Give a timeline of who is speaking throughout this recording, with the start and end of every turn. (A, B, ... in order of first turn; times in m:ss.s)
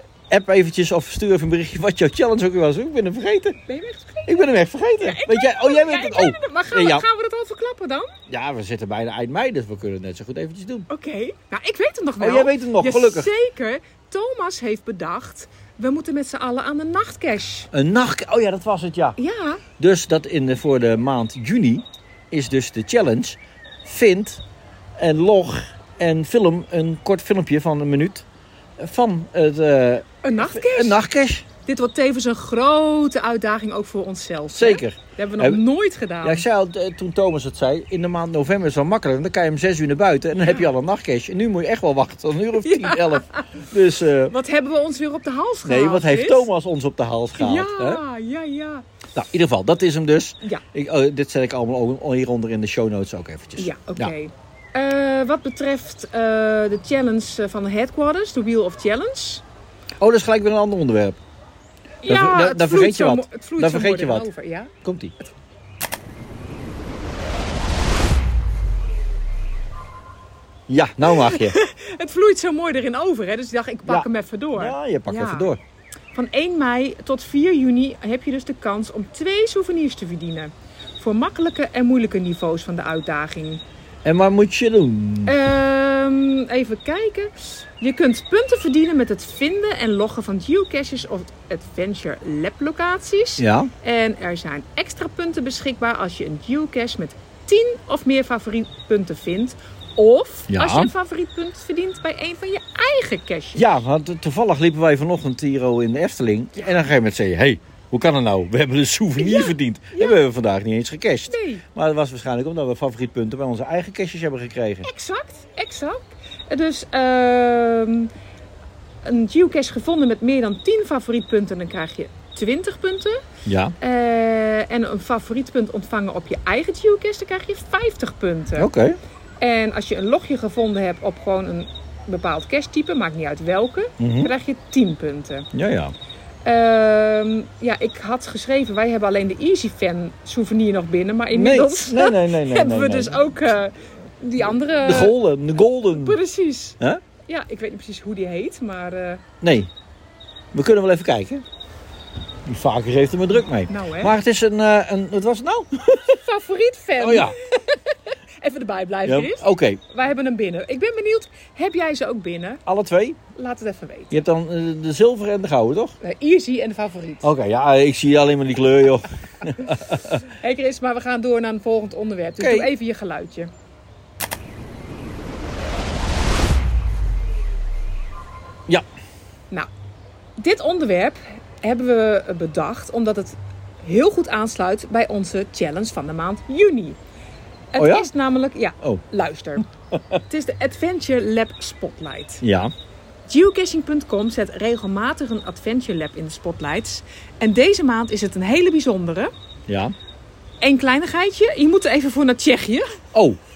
0:00.3-0:03.6 A
0:03.7-0:04.4 B
0:04.2-0:07.0 A
0:05.0-0:08.1 B
0:08.3-0:10.9 A
0:10.9-0:17.7 B
0:12.2-0:13.3 A
0:17.7-0:19.2 A
0:19.2-0:19.6 B
0:19.8-0:24.4 A
0:25.0-0:28.2 A
0:28.8-0:31.4 A
0:30.2-0:31.0 B
0:31.6-0:36.4 B
0:34.5-0:35.6 A
0:36.2-0:44.3 A
0:42.6-0:43.5 B
0:44.3-0:46.5 B
0:45.6-0:48.0 A
0:47.4-0:48.8 B
0:49.1-0:54.1 A
0:53.6-0:59.4 B
1:00.0-1:01.2 A
1:02.0-1:04.7 B
1:02.0-1:04.3 A
1:04.8-1:05.1 A
1:10.7-1:11.6 A
1:11.0-1:15.5 B
1:13.8-1:15.6 A
1:16.1-1:23.6 B
1:24.0-1:25.4 A
1:25.2-1:43.6 B
1:33.4-1:33.7 A
1:40.5-1:40.9 A
1:43.6-1:54.9 A
1:49.2-1:50.2 B
1:51.3-1:51.6 B
1:54.8-1:58.1 B
1:59.0-2:03.2 B
2:03.4-2:03.7 A
2:03.8-2:08.7 B
2:08.6-2:09.0 A
2:09.4-2:15.5 B
2:14.0-2:14.3 A
2:15.5-2:15.9 A
2:16.4-2:25.1 B
2:21.3-2:23.2 A
2:24.8-2:26.2 A
2:25.9-2:29.2 B
2:29.4-2:29.7 A
2:30.5-2:31.4 A
2:32.4-2:36.2 A
2:33.7-2:34.1 B
2:36.0-2:42.6 B
2:37.0-2:37.4 A
2:39.0-2:39.8 A
2:42.6-2:43.2 A
2:43.3-2:44.2 B
2:44.1-2:46.0 A
2:46.0-2:47.3 B
2:47.2-2:50.2 A
2:50.2-2:53.5 B
2:52.4-2:52.7 A
3:00.4-3:07.0 B
3:07.7-3:09.6 B
3:07.8-3:08.1 A
3:09.9-3:10.2 A
3:10.3-3:12.4 B
3:12.4-3:12.7 A
3:13.3-3:19.3 B
3:19.7-3:19.9 A
3:20.6-3:23.0 B
3:23.1-3:23.4 A